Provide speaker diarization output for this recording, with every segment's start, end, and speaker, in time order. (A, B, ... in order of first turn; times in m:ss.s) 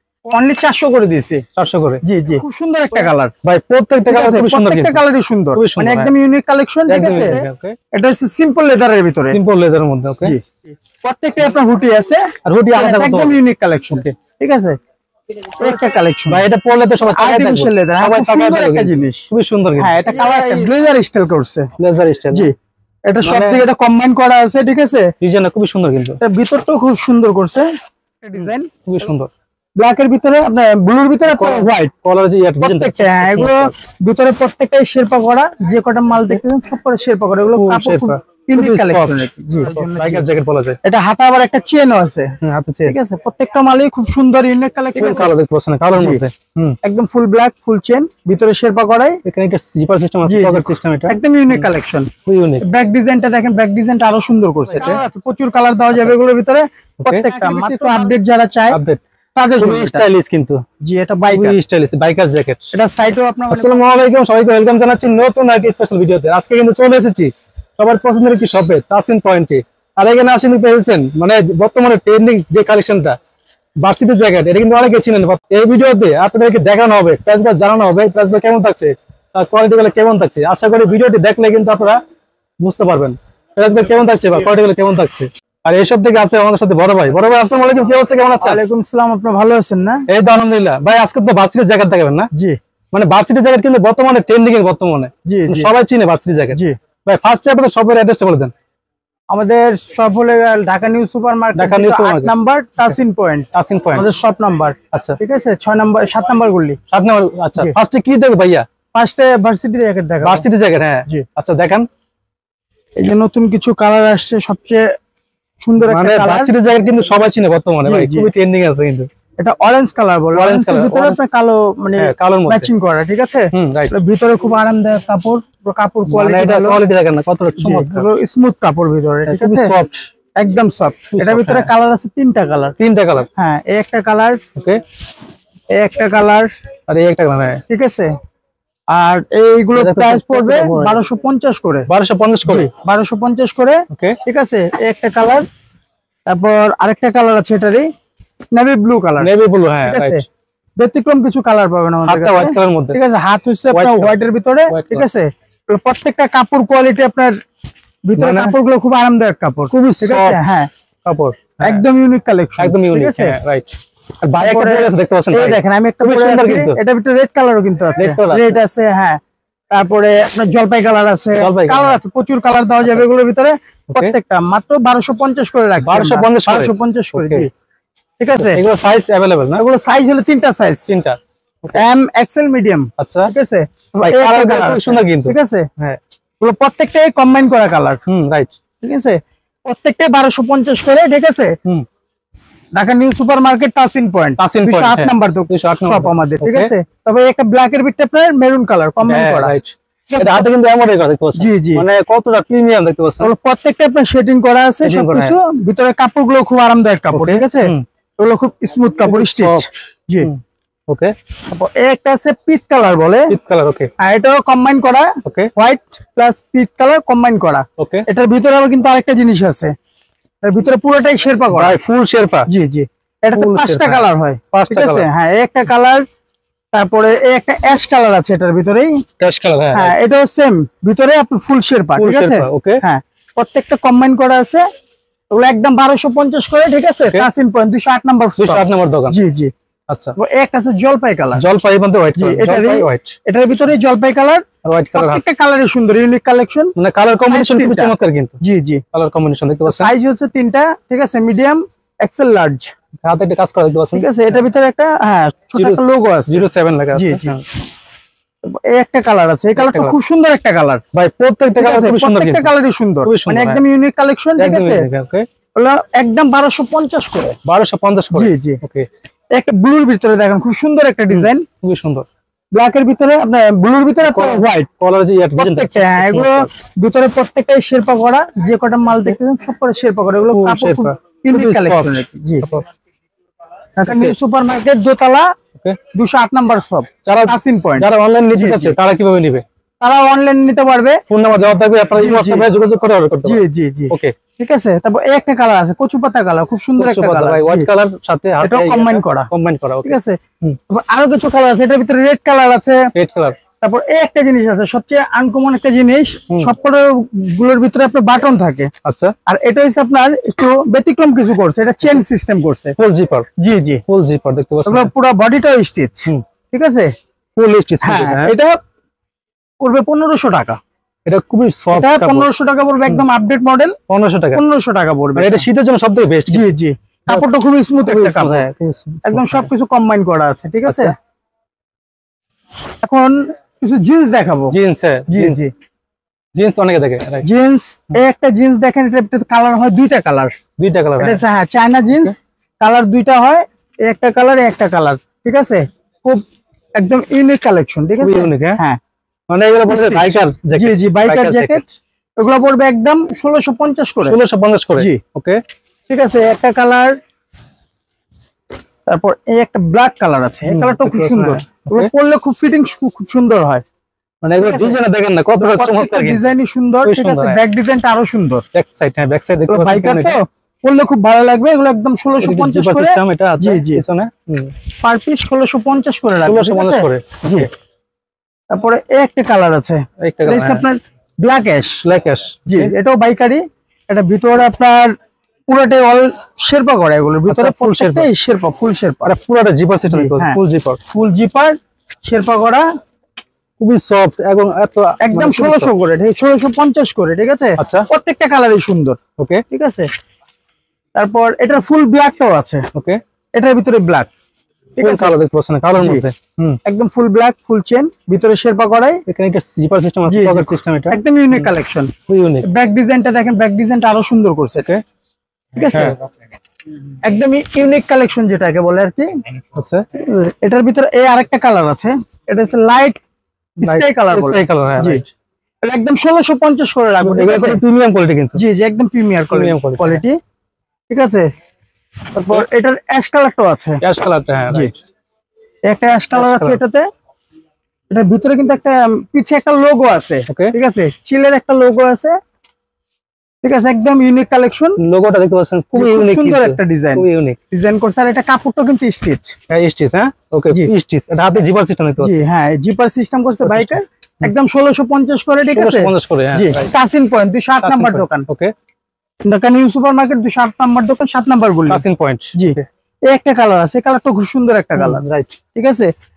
0:00.3-0:01.4 A
0:01.6-0:02.0 B
0:02.0-0:03.3 A
0:03.0-0:05.0 B
0:04.1-0:09.4 A
0:05.6-0:06.1 B
0:06.9-0:07.8 B
0:09.3-0:10.4 B
0:10.2-0:14.8 A
0:12.4-0:13.4 B
0:15.6-0:16.4 A
0:16.3-0:20.7 B
0:17.1-0:21.7 A
0:21.8-0:22.5 B
0:23.1-0:25.1 A
0:23.2-0:23.6 B
0:25.2-0:26.2 B
0:26.2-0:27.7 A
0:28.2-0:28.7 A
0:28.4-0:29.3 B
0:29.8-0:31.9 A
0:31.3-0:33.7 B
0:32.6-0:40.3 A
0:37.6-0:40.8 B
0:40.8-0:42.4 A
0:42.4-0:43.0 B
0:42.9-0:45.3 A
0:45.0-0:46.8 B
0:46.0-0:46.2 A
0:46.8-0:49.2 A
0:49.2-0:51.7 B
0:50.3-0:58.8 A
0:52.3-0:52.6 B
0:54.7-0:55.0 B
0:57.0-0:58.1 B
0:58.7-0:59.0 B
0:59.4-1:00.0 A
0:59.6-1:00.6 B
1:00.8-1:01.6 A
1:01.3-1:02.7 B
1:02.7-1:03.9 A
1:03.5-1:13.2 B
1:13.8-1:22.0 B
1:22.6-1:28.6 B
1:28.4-1:30.0 A
1:30.1-1:32.3 B
1:32.9-1:38.5 B
1:35.3-1:35.7 A
1:39.3-1:46.8 A
1:41.6-1:42.3 B
1:43.5-1:44.1 B
1:46.9-1:48.6 B
1:48.9-1:50.5 A
1:50.2-1:51.9 B
1:53.0-1:54.8 A
1:55.6-1:56.5 A
1:55.8-1:59.1 B
1:57.8-1:58.3 A
1:59.4-2:06.8 A
2:00.3-2:01.2 B
2:02.0-2:02.7 B
2:03.5-2:03.9 B
2:06.1-2:08.1 B
2:07.6-2:09.7 A
2:09.3-2:10.1 B
2:10.4-2:12.8 A
2:11.1-2:11.7 B
2:12.8-2:13.3 B
2:13.4-2:14.4 A
2:14.6-2:14.8 B
2:15.8-2:16.5 A
2:16.9-2:17.6 B
2:17.7-2:18.1 A
2:18.9-2:21.9 A
2:19.8-2:21.0 B
2:21.9-2:22.7 B
2:22.4-2:25.4 A
2:23.9-2:24.2 B
2:26.3-2:27.9 A
2:28.5-2:29.3 A
2:29.2-2:30.2 B
2:29.8-2:30.2 A
2:30.8-2:37.4 A
2:32.1-2:33.0 B
2:33.7-2:34.2 B
2:34.7-2:35.0 B
2:38.0-2:40.7 A
2:38.2-2:38.6 B
2:39.7-2:40.4 B
2:41.0-2:41.8 B
2:41.6-2:43.4 A
2:42.6-2:43.7 B
2:44.2-2:46.8 B
2:44.4-2:49.2 A
2:48.0-2:48.6 B
2:49.7-2:57.5 A
2:51.4-2:52.0 B
2:55.8-2:57.5 B
2:58.2-2:58.6 A
2:58.4-2:59.6 B
2:59.6-3:01.0 A
3:00.9-3:01.8 B
3:01.7-3:05.7 A
3:03.0-3:03.3 B
3:04.0-3:06.0 B
3:06.4-3:08.0 A
3:08.1-3:08.5 B
3:08.8-3:11.6 A
3:12.8-3:19.5 A
3:14.4-3:16.7 B
3:19.0-3:23.3 B
3:20.1-3:20.5 A
3:21.4-3:21.8 A
3:23.2-3:30.3 A
3:24.8-3:25.4 B
3:27.1-3:27.8 B
3:29.0-3:29.7 B
3:30.2-3:31.1 B
3:31.5-3:33.3 A
3:33.3-3:33.9 B
3:34.0-3:39.7 A
3:35.2-3:35.5 B
3:37.8-3:38.1 B
3:40.4-3:41.8 A
3:41.5-3:42.5 B
3:42.5-3:46.0 A
3:43.3-3:45.1 B
3:46.7-3:48.9 A
3:49.2-3:49.9 B
3:49.7-3:54.6 A
3:52.0-3:52.8 B
3:55.3-3:59.5 A
3:58.4-3:59.2 B
3:59.9-4:00.2 B
4:00.2-4:01.4 A
4:01.4-4:03.2 B
4:02.2-4:04.4 A
4:04.6-4:05.2 B
4:05.0-4:08.8 A
4:06.8-4:08.4 B
4:08.9-4:09.9 B
4:09.7-4:12.7 A
4:13.0-4:14.1 B
4:13.9-4:16.4 A
4:15.6-4:17.4 B
4:17.0-4:17.3 A
4:18.4-4:20.8 A
4:19.6-4:20.0 B
4:20.9-4:22.5 B
4:21.6-4:24.9 A
4:23.0-4:23.6 B
4:24.4-4:25.3 B
4:25.6-4:27.4 A
4:27.4-4:28.9 B
4:28.1-4:28.6 A
4:29.3-4:31.5 A
4:31.1-4:32.1 B
4:32.5-4:34.7 A
4:34.0-4:36.5 B
4:35.4-4:42.5 A
4:40.3-4:42.7 B
4:43.8-4:45.3 A
4:43.9-4:44.2 B
4:45.9-4:48.7 A
4:47.1-4:49.4 B
4:49.8-4:51.0 A
4:51.1-4:54.2 B
4:52.0-4:52.5 A
4:53.2-4:57.7 A
4:56.8-5:00.6 B
4:58.4-4:59.3 A
4:59.8-5:00.2 A
5:00.7-5:02.9 A
5:03.0-5:03.4 B
5:03.6-5:08.7 A
5:08.8-5:09.2 B
5:09.3-5:12.8 A
5:12.8-5:13.3 B
5:13.4-5:13.8 A
5:13.9-5:14.9 B
5:14.7-5:16.9 A
5:17.4-5:18.3 B
5:17.8-5:18.6 A
5:19.6-5:20.6 A
5:21.1-5:22.3 B
5:21.7-5:23.8 A
5:23.9-5:24.4 B
5:24.3-5:25.4 A
5:25.2-5:26.4 B
5:26.3-5:28.5 A
5:27.9-5:29.5 B
5:29.0-5:31.0 A
5:30.6-5:30.9 B
5:32.8-5:34.6 A
5:34.5-5:35.5 B
5:35.1-5:35.5 A
5:36.4-5:37.3 B
5:37.2-5:40.3 A
5:40.6-5:41.2 B
5:41.0-5:46.2 A
5:46.8-5:48.8 A
5:48.0-5:48.6 B
5:49.3-5:51.7 B
5:49.7-5:51.6 A
5:52.2-5:54.2 A
5:54.0-5:55.4 B
5:55.9-5:57.0 A
5:58.9-6:03.6 A
6:00.5-6:01.9 B
6:04.2-6:06.3 B
6:04.4-6:04.8 A
6:05.4-6:08.4 A
6:06.8-6:07.4 B
6:08.5-6:10.2 B
6:09.5-6:13.8 A
6:12.2-6:14.5 B
6:14.8-6:17.5 A
6:16.2-6:17.5 B
6:18.5-6:21.8 A
6:20.0-6:20.6 B
6:21.8-6:22.7 B
6:22.5-6:25.0 A
6:25.5-6:29.1 A
6:27.3-6:28.1 B
6:29.0-6:30.8 B
6:29.9-6:30.4 A
6:30.9-6:32.6 A
6:33.6-6:35.8 B
6:35.0-6:39.0 A
6:37.6-6:37.8 B
6:39.2-6:39.4 B
6:39.5-6:39.9 A
6:41.0-6:42.7 A
6:42.7-6:43.0 B
6:43.4-6:44.1 A
6:44.8-6:45.1 A
6:44.8-6:46.6 B
6:45.8-6:46.0 A
6:46.6-6:49.0 A
6:49.1-6:51.5 B
6:50.1-6:54.7 A
6:52.1-6:52.5 B
6:55.6-6:56.0 A
6:55.7-6:56.0 B
6:57.0-6:59.1 A
6:59.6-6:59.8 B
6:59.9-7:03.0 A
7:03.6-7:05.0 A
7:03.6-7:05.1 B
7:05.6-7:07.6 A
7:07.0-7:08.4 B
7:08.4-7:10.2 A
7:09.3-7:10.0 B
7:10.9-7:11.3 A
7:12.2-7:12.5 B
7:12.2-7:13.8 A
7:13.8-7:14.8 B
7:15.7-7:16.8 A
7:16.1-7:16.6 B
7:17.9-7:22.2 A
7:20.3-7:20.5 B
7:23.4-7:24.8 A
7:24.8-7:27.4 B
7:25.8-7:29.4 A
7:29.5-7:32.2 B
7:32.0-7:38.3 A
7:33.4-7:34.3 B
7:35.6-7:36.7 B
7:37.6-7:38.5 B
7:39.2-7:41.8 A
7:41.7-7:42.6 B
7:42.3-7:45.9 A
7:44.8-7:45.4 B